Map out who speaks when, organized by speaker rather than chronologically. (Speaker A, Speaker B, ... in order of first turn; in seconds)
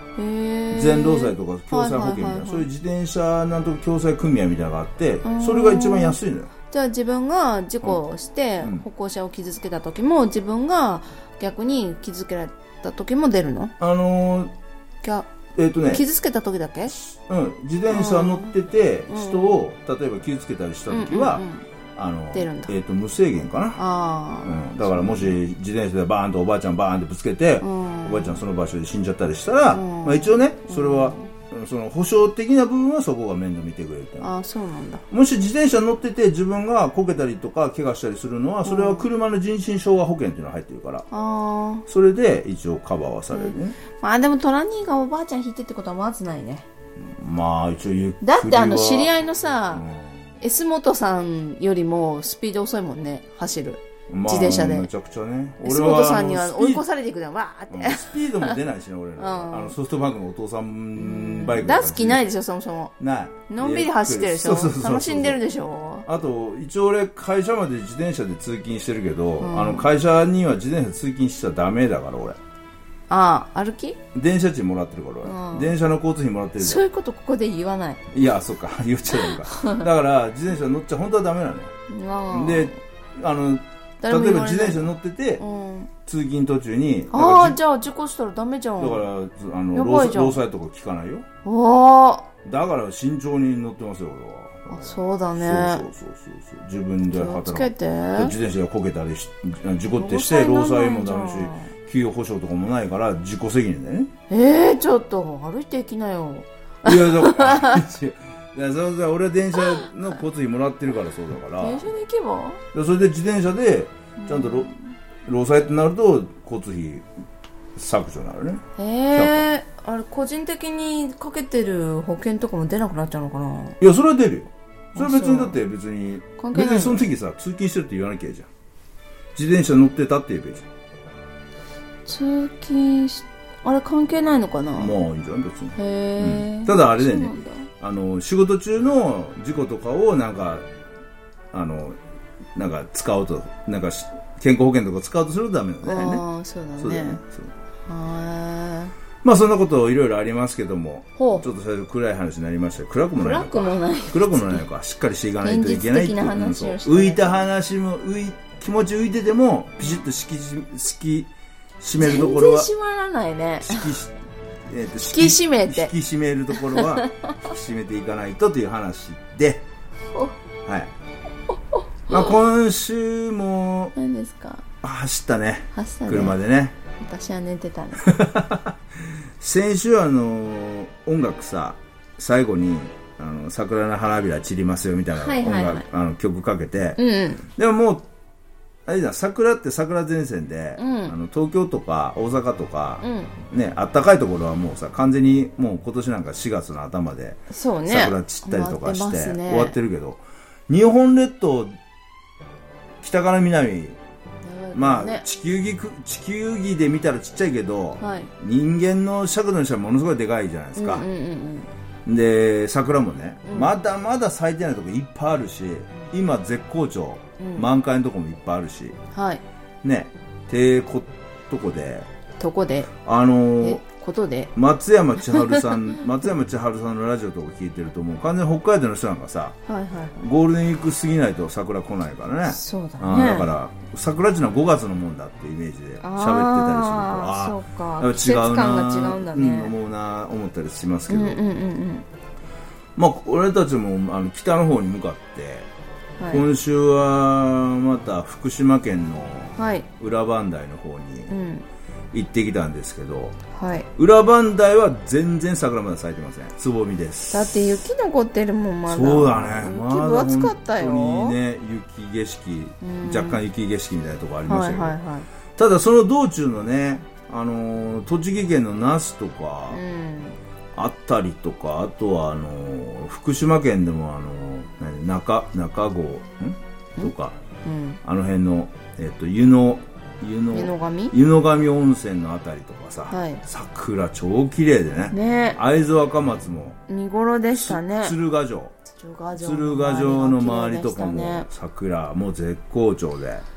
Speaker A: 0.1-2.7, 5.2-13.7, 15.0-15.3, 15.9-16.9, 17.9-18.6, 19.1-19.7, 20.9-21.6, 22.3-22.7, 23.8-25.4, 27.6-28.4, 29.7-31.3, 34.2-35.0, 38.6-39.1, 41.1-41.8, 43.3-46.6, 48.2-49.8, 50.4-54.9, 55.6-58.5, 59.2-59.8, 61.0-62.9, 63.5-66.1, 69.4-69.9, 73.1-74.0, 75.2-75.7, 76.6-78.0, 79.1-79.8, 81.9-82.8, 84.0-85.9, 87.1-89.0, 89.7-90.4, 91.4-92.3, 94.7-95.9, 97.1-98.3, 99.9-101.7, 104.3-107.8, 109.6-109.9, 111.6-112.6, 114.2-114.8, 118.8-123.8, 124.9-125.6, 126.4-127.1, 132.1-134.9, 135.8-137.7, 145.8-147.2, 147.9-148.9, 151.2-151.5, 153.1-154.6, 155.4-157.4, 162.0-163.9, 165.0-165.9, 166.5-167.3, 171.7-172.3, 173.9-174.6, 175.7-176.4, 177.0-178.1, 185.1-185.8, 187.0-187.5, 190.8-191.1, 193.0-193.3, 197.5-199.8, 204.4-205.2, 208.0-208.3, 210.8-211.7, 213.4-213.8, 217.4-217.7, 219.1-219.4, 222.4-222.9, 223.6-224.5, 225.2-226.0, 229.7-230.3, 232.4-233.5, 236.0-239.7, 241.1-242.1, 246.2-246.4, 249.6-249.9, 251.3-251.6, 253.5-253.9, 257.3-261.4, 262.8-263.4, 264.5-265.3, 269.7-270.4, 277.6-278.0, 280.5-281.1, 283.1-283.4, 285.1-285.6, 286.9-288.1, 288.9-291.5
Speaker B: 0.7-6.5, 13.8-14.5, 15.5-16.0, 16.9-21.4, 21.9-23.8, 24.4-34.3, 35.1-41.0, 41.9-43.8, 47.0-49.1, 49.7-50.3, 54.1-56.8, 57.7-62.2, 63.0-65.4, 66.0-72.4, 74.1-76.8, 78.1-81.7, 82.3-85.4, 86.0-87.6, 88.8-91.2, 92.4-104.1, 106.8-111.8, 112.7-114.7, 115.2-117.0, 117.8-118.6, 119.1-119.4, 123.8-128.5, 129.3-130.7, 134.7-140.6, 141.5-142.0, 142.5-146.2, 146.8-147.5, 149.2-162.7, 163.6-164.1, 164.7-169.6, 170.6-170.9, 172.1-173.9, 174.8-176.7, 178.0-178.8, 179.4-187.0, 187.6-188.1, 188.8-201.7, 203.0-204.0, 204.7-211.1, 212.1-219.0, 219.8-222.1, 223.0-223.8, 224.5-229.6, 230.2-241.4, 242.9-245.7, 246.3-251.3, 252.1-253.3, 253.9-257.8, 258.9-264.9, 265.6-269.8, 270.7-277.4, 278.0-286.8, 287.5-288.7, 289.3-293.4